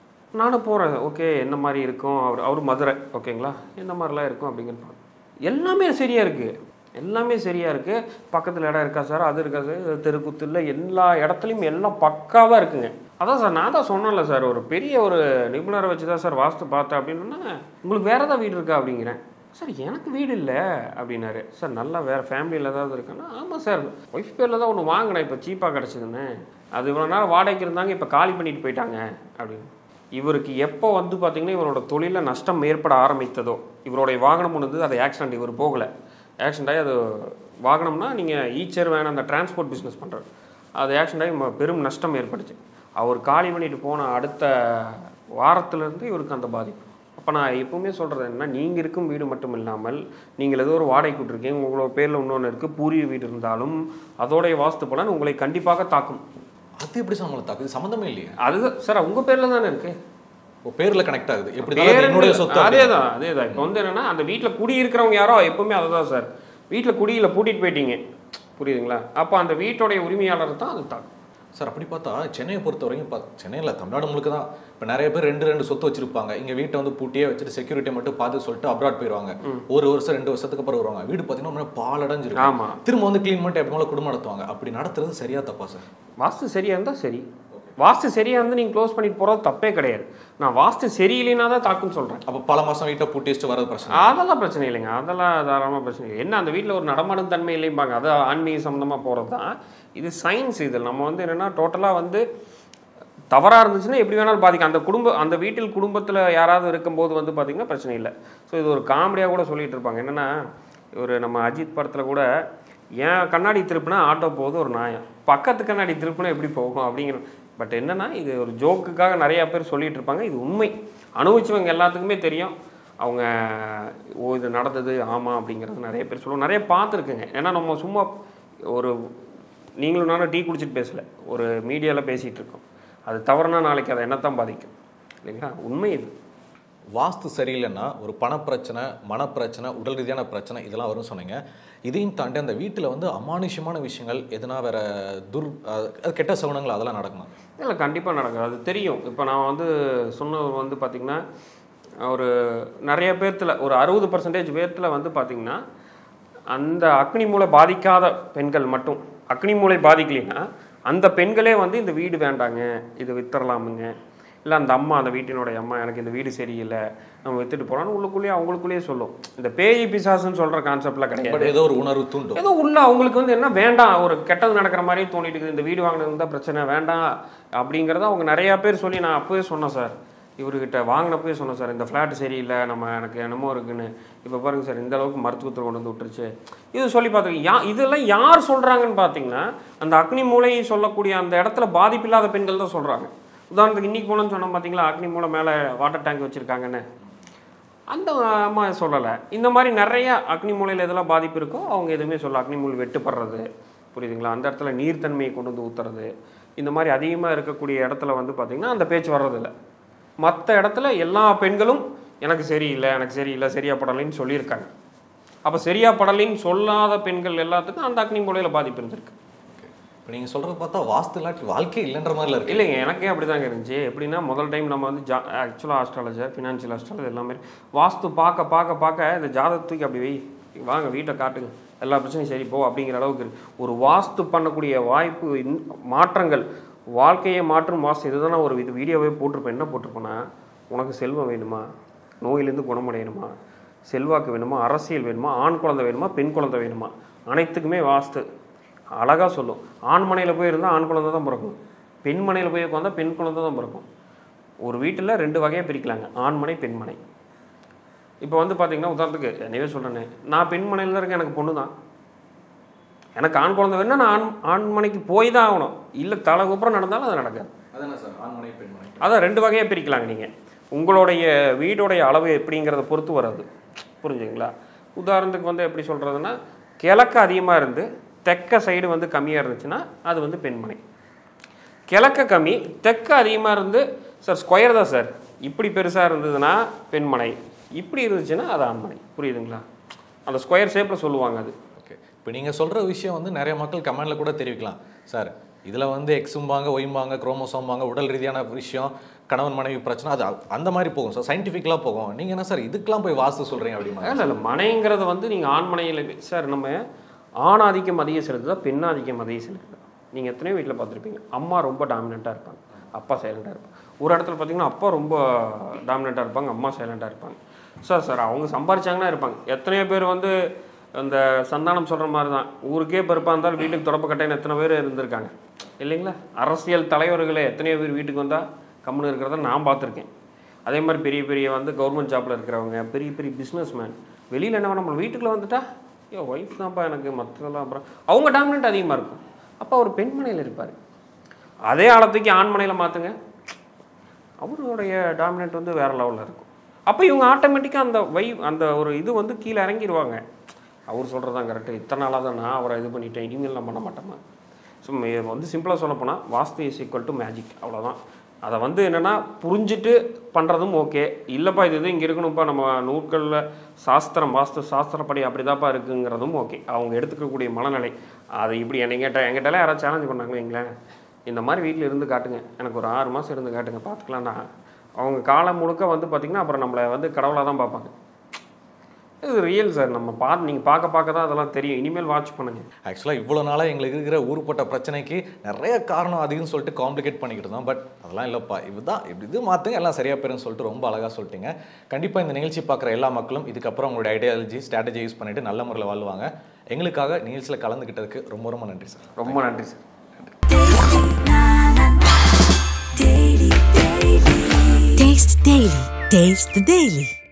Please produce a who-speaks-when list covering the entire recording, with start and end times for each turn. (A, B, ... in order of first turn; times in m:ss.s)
0:00.4-0:35.9 A
0:36.4-0:40.2 A
0:40.8-0:56.2 A
0:56.8-0:58.4 B
0:58.4-1:00.0 A
1:00.6-1:03.7 B
1:01.7-1:08.0 A
1:08.6-1:11.1 A
1:11.6-1:25.8 B
1:22.4-1:22.8 A
1:26.2-1:27.3 A
1:27.8-1:32.2 A
1:32.3-1:34.1 B
1:33.9-1:42.2 A
1:43.3-1:50.3 A
1:51.0-1:52.3 A
1:53.0-2:08.1 A
2:09.8-2:14.7 A
2:15.2-2:16.1 A
2:17.0-2:27.3 B
2:27.6-2:31.2 A
2:32.0-2:35.6 A
2:36.5-2:43.9 A
2:44.4-2:51.5 A
2:51.2-2:52.4 B
2:52.4-3:16.8 A
3:17.9-3:29.5 A
3:30.2-3:34.7 A
3:35.4-3:39.2 A
3:39.5-3:42.6 B
3:42.5-4:01.6 A
4:02.2-4:03.3 A
4:03.9-4:08.2 A
4:09.0-4:13.9 A
4:14.6-4:17.0 A
4:18.2-4:21.7 A
4:23.2-4:27.5 A
4:27.7-4:29.0 B
4:29.0-4:33.5 A
4:34.0-4:40.8 A
4:41.9-4:49.6 A
4:50.3-4:51.6 A
4:51.8-5:04.4 B
5:04.0-5:06.8 A
5:07.4-5:20.4 A
5:21.0-5:30.1 A
5:30.7-5:40.8 A
5:41.7-5:43.2 A
5:44.4-5:50.2 A
5:50.9-5:54.2 A
5:54.8-6:10.7 A
6:11.3-6:14.4 A
6:15.0-6:17.9 A
6:19.2-6:22.7 A
6:22.8-6:39.5 B
6:39.2-6:39.8 A
6:40.5-6:47.1 C